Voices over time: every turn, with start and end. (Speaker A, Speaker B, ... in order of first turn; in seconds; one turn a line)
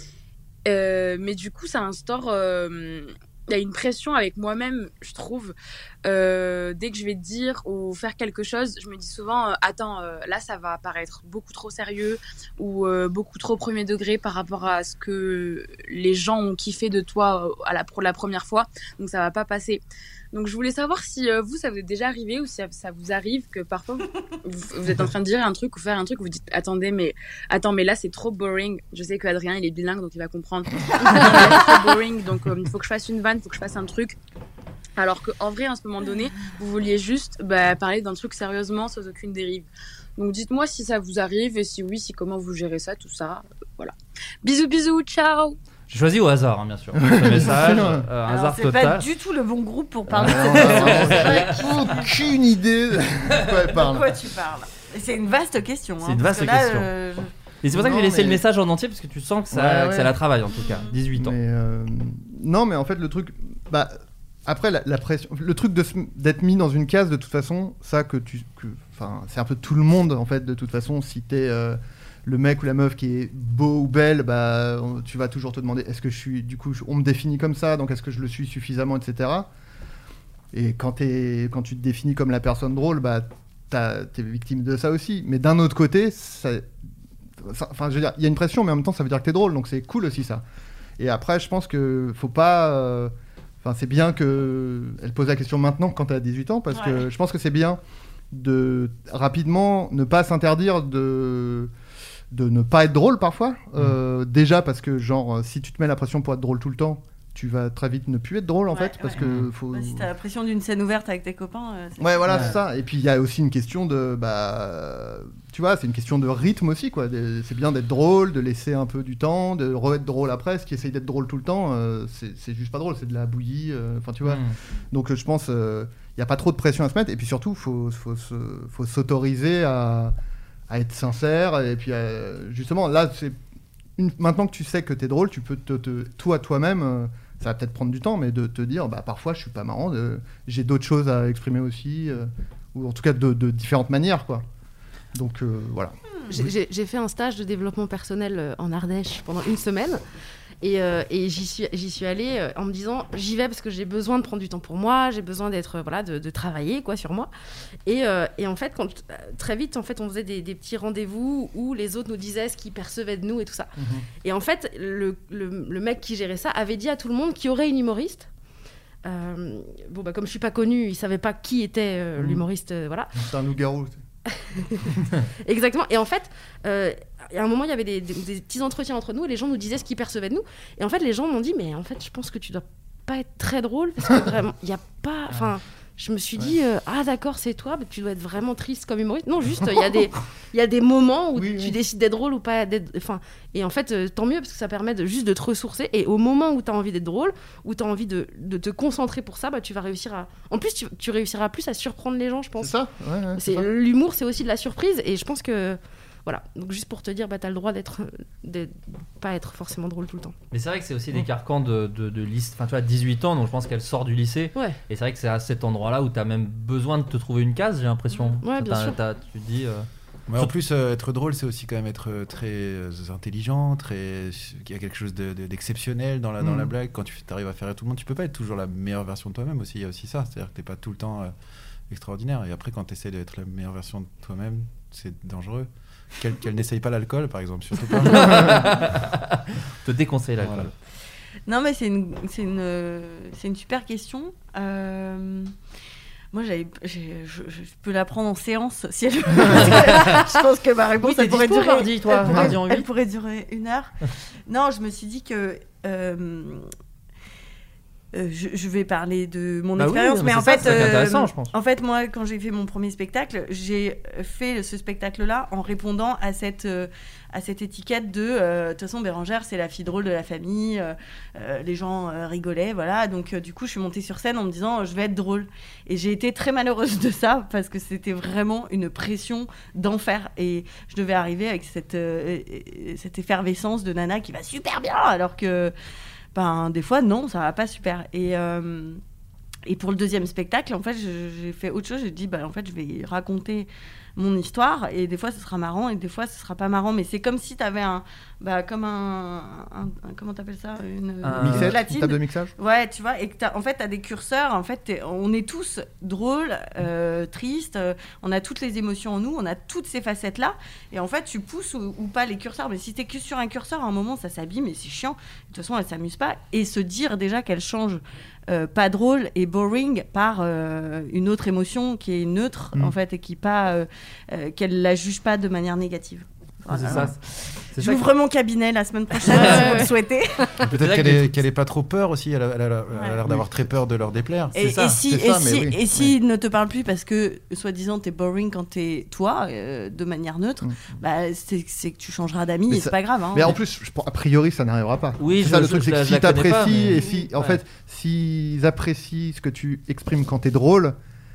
Speaker A: 0.7-19.8
Speaker A: 20.3-34.1
Speaker A: 35.0-45.6
Speaker B: 45.9-49.1
Speaker C: 47.0-48.0
Speaker D: 48.3-52.1
Speaker B: 50.1-51.6
Speaker C: 50.2-54.1
Speaker D: 53.7-57.3
Speaker B: 56.0-56.9
Speaker B: 57.6-61.3
Speaker C: 57.7-58.4
Speaker C: 59.5-60.1
Speaker D: 60.5-60.9
Speaker C: 61.1-63.9
Speaker C: 64.5-79.5
Speaker C: 80.5-86.7
Speaker C: 87.4-90.4
Speaker C: 91.0-97.8
Speaker D: 96.7-97.0
Speaker C: 98.3-101.7
Speaker C: 102.3-110.1
Speaker D: 108.7-112.6
Speaker C: 112.0-130.1
Speaker B: 112.3-112.5
Speaker B: 124.2-124.5
Speaker C: 130.7-133.4
Speaker C: 134.0-144.4
Speaker C: 145.1-145.9
Speaker E: 146.3-150.0
Speaker E: 150.6-157.3
Speaker E: 157.8-163.7
Speaker C: 163.8-164.1
Speaker E: 164.2-168.3
Speaker E: 169.0-173.1
Speaker C: 172.2-172.4
Speaker C: 173.1-174.0
Speaker E: 174.6-202.8
Speaker C: 191.3-191.8
Speaker C: 202.6-203.7
Speaker E: 203.3-210.3
Speaker B: 210.5-219.9
Speaker E: 218.4-219.0
Speaker F: 220.3-231.3
Speaker C: 226.4-226.7
Speaker F: 231.9-238.8
Speaker B: 238.1-240.7
Speaker F: 240.4-240.7
Speaker D: 241.5-245.5
Speaker D: 246.3-253.9
Speaker B: 249.5-250.2
Speaker B: 251.0-252.9
Speaker C: 252.3-252.5
Speaker D: 254.5-256.7
Speaker D: 258.1-285.7
Speaker B: 259.8-261.5
Speaker D: 286.3-289.0
Speaker D: 289.7-330.4
Speaker B: 301.2-301.7
Speaker C: 301.4-302.5
Speaker B: 326.7-327.2
Speaker B: 327.7-328.0
Speaker B: 329.2-329.8
Speaker E: 329.3-329.9
Speaker B: 330.6-331.4
Speaker F: 330.6-334.6
Speaker D: 332.9-333.2
Speaker D: 334.5-343.6
Speaker C: 334.7-336.1
Speaker C: 342.7-350.9
Speaker B: 345.2-347.6
Speaker D: 346.9-347.3